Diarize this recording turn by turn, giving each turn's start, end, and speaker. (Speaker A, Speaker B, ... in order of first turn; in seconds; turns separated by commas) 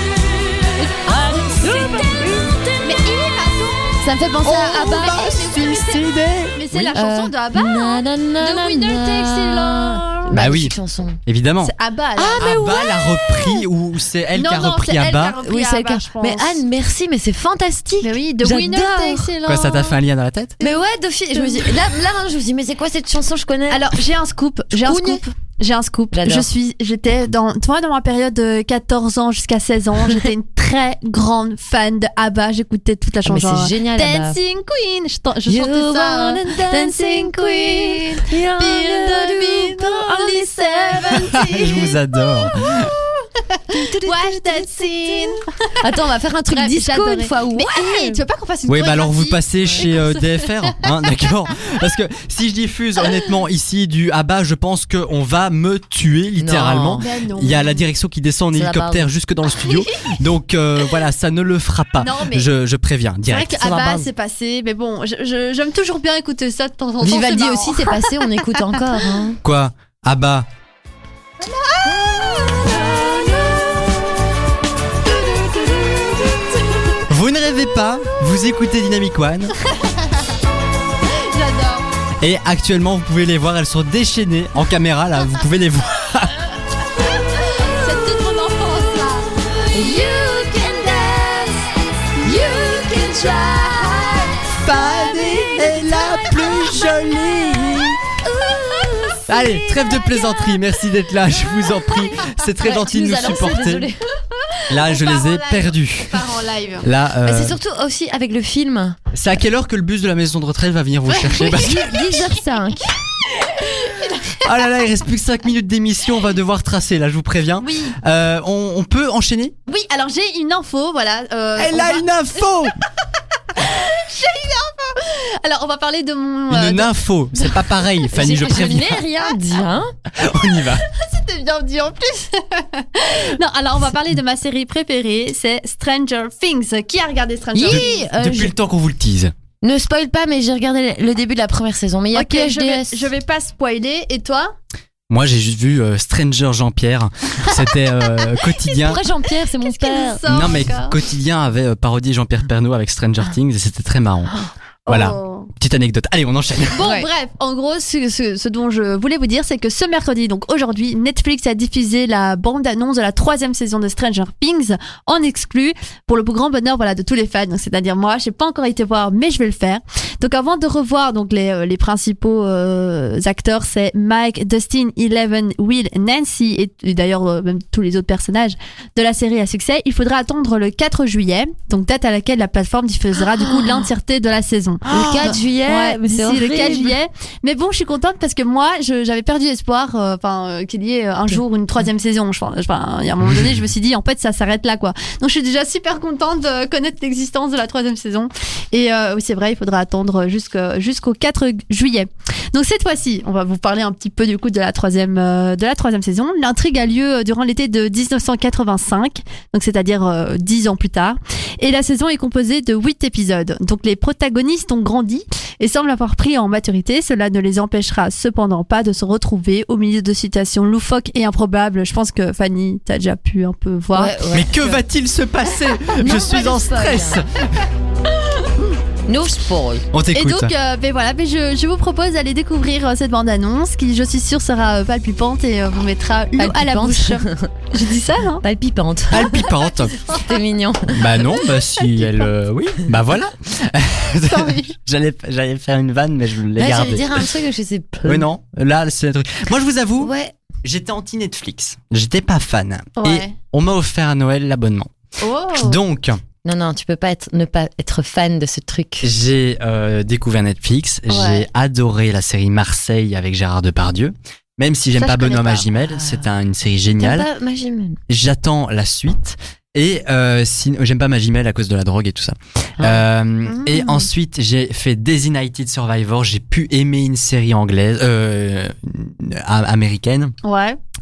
Speaker A: 0.8-2.3, Speaker B: 1.0-3.1, Speaker A: 2.8-10.3, Speaker B: 4.4-5.3, Speaker C: 4.5-7.0, Speaker B: 7.0-11.2, Speaker C: 10.3-10.7, Speaker C: 11.3-11.7, Speaker A: 11.6-12.8, Speaker B: 12.2-13.5, Speaker C: 12.4-15.4, Speaker A: 14.4-16.6, Speaker B: 15.4-19.3, Speaker A: 18.0-20.0, Speaker C: 19.5-20.6, Speaker B: 20.6-23.8, Speaker A: 21.3-21.7, Speaker A: 23.7-42.0, Speaker B: 24.8-25.2, Speaker B: 26.1-26.5, Speaker B: 33.3-34.4, Speaker B: 35.5-41.4, Speaker C: 41.3-42.9, Speaker A: 43.5-45.8, Speaker B: 43.7-48.2, Speaker A: 46.5-50.9, Speaker C: 48.7-64.1, Speaker B: 56.4-57.1, Speaker A: 57.0-57.8, Speaker B: 58.5-59.1, Speaker A: 62.0-62.5, Speaker A: 63.3-69.0, Speaker B: 67.0-69.4, Speaker C: 69.4-70.5, Speaker A: 71.4-74.2, Speaker A: 75.0-77.0, Speaker C: 77.1-79.5, Speaker A: 79.7-80.1, Speaker A: 81.1-81.9, Speaker C: 82.2-86.4, Speaker A: 87.6-91.2, Speaker B: 89.7-91.6, Speaker B: 92.2-94.4, Speaker C: 94.6-98.0, Speaker A: 95.0-95.7, Speaker B: 98.1-99.7, Speaker C: 99.3-103.9, Speaker B: 102.6-104.0, Speaker C: 104.7-106.2, Speaker A: 104.7-106.9, Speaker C: 106.8-107.6, Speaker B: 107.2-109.0, Speaker C: 109.1-112.0, Speaker A: 111.2-111.9, Speaker B: 111.5-112.9, Speaker A: 113.9-114.5, Speaker C: 114.4-119.6, Speaker A: 117.6-118.0, Speaker A: 119.7-122.0, Speaker C: 121.6-122.8, Speaker A: 123.6-127.6, Speaker C: 126.5-129.0, Speaker B: 128.1-129.9, Speaker C: 130.1-130.8, Speaker A: 130.8-138.1, Speaker B: 137.6-138.5, Speaker C: 137.7-139.3, Speaker B: 139.6-143.1, Speaker A: 142.1-144.5, Speaker C: 145.1-149.0, Speaker B: 148.8-150.2, Speaker A: 149.6-150.9, Speaker C: 150.3-154.3, Speaker A: 154.9-155.5, Speaker C: 154.9-156.8, Speaker A: 156.7-224.2, Speaker B: 156.8-157.1, Speaker B: 184.9-187.0, Speaker B: 224.0-224.8, Speaker C: 224.3-227.5, Speaker B: 226.0-227.2, Speaker B: 229.1-229.8, Speaker C: 229.9-230.5, Speaker A: 230.1-238.4, Speaker B: 236.4-237.5, Speaker B: 238.4-239.4, Speaker C: 239.1-239.9, Speaker B: 240.2-241.3, Speaker C: 240.9-247.3, Speaker A: 244.3-244.8, Speaker B: 246.6-248.3, Speaker C: 248.1-250.1, Speaker B: 250.0-250.3, Speaker C: 250.6-254.9, Speaker A: 253.0-253.4, Speaker A: 255.2-255.8, Speaker C: 255.6-256.2, Speaker B: 256.4-259.1, Speaker C: 259.0-267.3, Speaker A: 261.1-261.5, Speaker A: 265.0-265.7, Speaker B: 267.0-268.0, Speaker C: 268.1-280.4, Speaker A: 273.5-274.1, Speaker A: 280.4-280.8